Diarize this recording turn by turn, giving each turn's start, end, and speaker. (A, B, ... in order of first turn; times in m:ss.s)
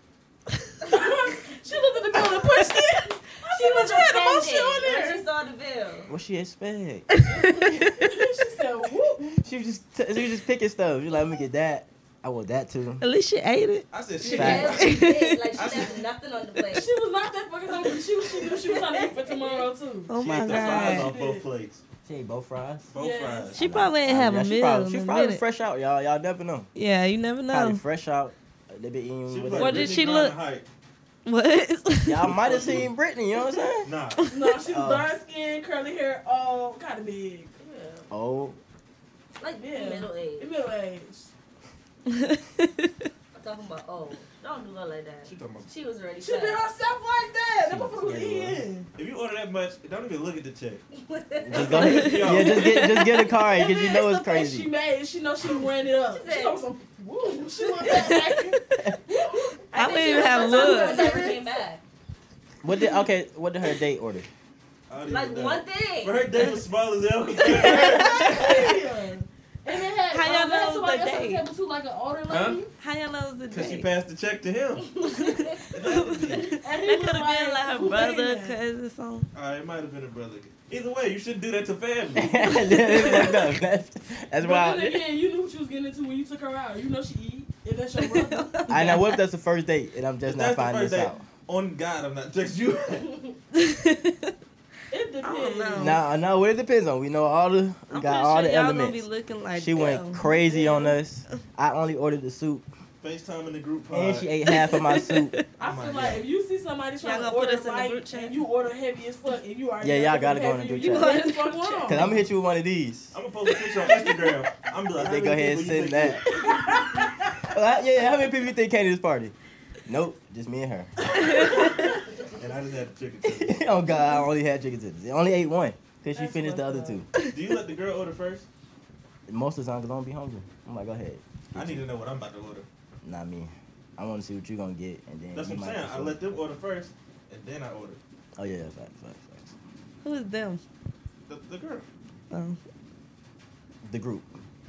0:00.9-0:05.2 A
0:03.4-0:06.1 B
0:06.1-0:07.1 C
0:07.1-0:08.1 D
0:07.3-0:09.4 A
0:09.4-0:13.0 C
0:13.0-0:15.5 D
0:13.9-0:15.0 E
0:14.3-0:16.9 B
0:14.3-0:14.8 C
0:15.6-0:16.0 E
0:16.7-0:21.4 A
0:18.4-0:19.6 B
0:20.1-0:21.1 D
0:20.2-0:21.8 E
0:20.4-0:20.8 C
0:22.0-0:22.9 C
0:22.9-0:23.6 E
0:23.0-0:23.6 A
0:23.5-0:25.4 D
0:23.6-0:26.7 C
0:26.8-0:27.8 D
0:27.5-0:30.0 C
0:29.3-0:30.7 E
0:29.6-0:30.4 D
0:31.2-0:32.2 D
0:32.0-0:33.9 C
0:32.2-0:32.9 E
0:33.8-0:34.2 E
0:34.3-0:37.6 A
0:34.7-0:35.1 C
0:37.6-0:38.0 B
0:38.1-0:38.6 C
0:39.4-0:40.5 B
0:39.6-0:41.3 A
0:42.1-0:43.1 D
0:43.4-0:46.6 B
0:45.2-0:45.7 E
0:46.2-0:48.9 A
0:47.6-0:48.6 C
0:49.0-0:50.8 E
0:51.0-0:52.1 B
0:51.4-0:54.7 C
0:51.5-0:53.0 E
0:51.8-0:53.3 D
0:53.2-1:01.6 A
0:56.1-0:56.6 B
0:57.9-0:58.8 D
0:59.7-1:01.8 B
0:59.7-1:01.3 D
1:02.6-1:04.3 C
1:04.9-1:08.7 E
1:05.1-1:06.3 B
1:07.4-1:08.7 D
1:07.6-1:12.7 A
1:10.1-1:11.4 D
1:12.3-1:12.6 E
1:12.8-1:13.9 D
1:13.5-1:15.0 E
1:15.0-1:19.3 D
1:15.0-1:15.6 B
1:15.7-1:16.5 E
1:16.5-1:18.6 A
1:19.3-1:23.1 E
1:22.2-1:25.0 C
1:22.8-1:23.4 D
1:24.4-1:29.0 A
1:28.0-1:29.2 D
1:28.7-1:31.2 C
1:30.2-1:33.2 E
1:33.5-1:34.3 D
1:34.9-1:36.0 A
1:35.2-1:36.0 D
1:35.8-1:42.7 C
1:37.9-1:40.2 D
1:40.2-1:41.0 A
1:43.0-1:44.3 E
1:43.9-1:45.4 C
1:44.5-1:45.5 D
1:45.6-1:52.1 A
1:45.6-1:46.2 E
1:47.0-1:48.4 D
1:49.8-1:51.3 C
1:50.8-1:52.2 D
1:51.9-1:53.2 C
1:53.1-1:57.1 E
1:53.8-1:54.1 D
1:55.0-1:59.4 C
1:59.9-2:00.9 C
2:01.1-2:01.8 D
2:02.2-2:03.6 E
2:03.2-2:07.1 C
2:06.1-2:07.0 A
2:07.3-2:08.5 E
2:09.3-2:11.9 C
2:11.5-2:12.7 E
2:13.0-2:16.2 C
2:15.3-2:18.0 E
2:18.4-2:19.6 C
2:20.0-2:20.6 D
2:21.3-2:21.9 E
2:22.3-2:22.6 D
2:23.8-2:24.3 C